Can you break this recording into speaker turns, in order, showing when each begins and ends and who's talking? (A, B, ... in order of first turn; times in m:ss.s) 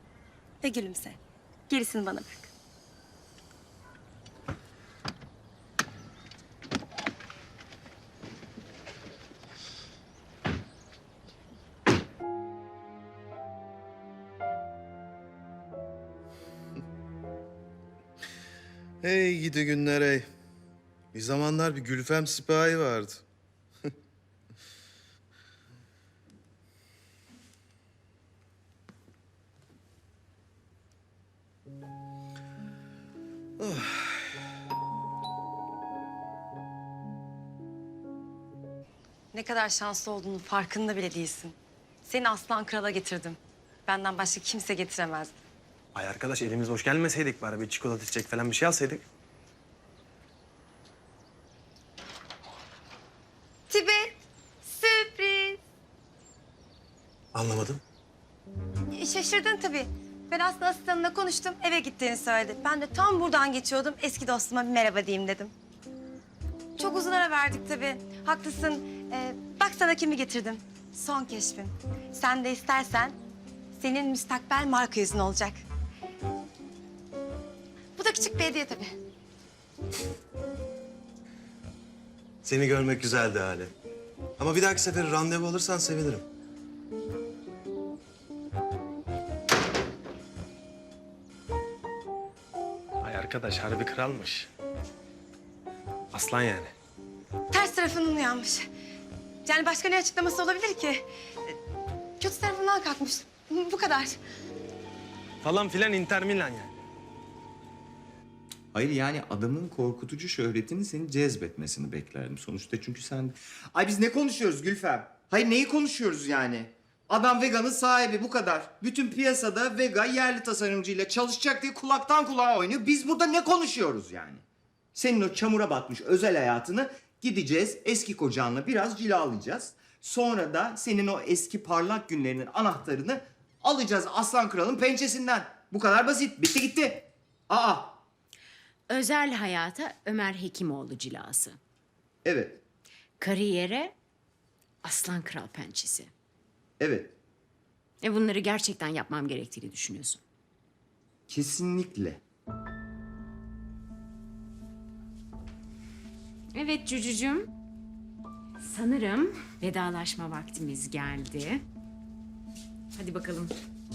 0:00.6-0:01.2 A
0:01.7-0:02.5 A
0:19.0-0:20.3 B
0:21.1-0:23.2 B
0:33.6-0:34.0 B
0:39.3-0:45.3 A
0:45.9-0:49.0 C
0:48.1-0:48.6 B
0:53.7-0:55.6 A
0:57.4-0:57.8 B
0:58.9-1:05.5 A
1:06.8-1:13.2 A
1:13.8-1:15.6 A
1:18.0-1:19.0 A
1:22.4-1:23.7 B
1:24.4-1:26.2 B
1:33.0-1:34.0 C
1:33.0-1:34.5 B
1:36.1-1:36.7 C
1:37.5-1:38.7 A
1:39.4-1:41.6 A
1:42.2-1:44.2 A
1:45.4-1:46.6 C
1:45.4-1:46.7 B
1:48.7-2:04.4 D
2:04.9-2:18.0 D
2:18.9-2:21.6 E
2:22.2-2:22.6 D
2:23.2-2:23.9 E
2:24.8-2:26.1 E
2:26.8-2:27.1 D
2:28.0-2:30.2 E
2:31.3-2:32.2 D
2:36.5-2:37.5 E
2:38.6-2:41.6 E
2:42.9-2:43.5 E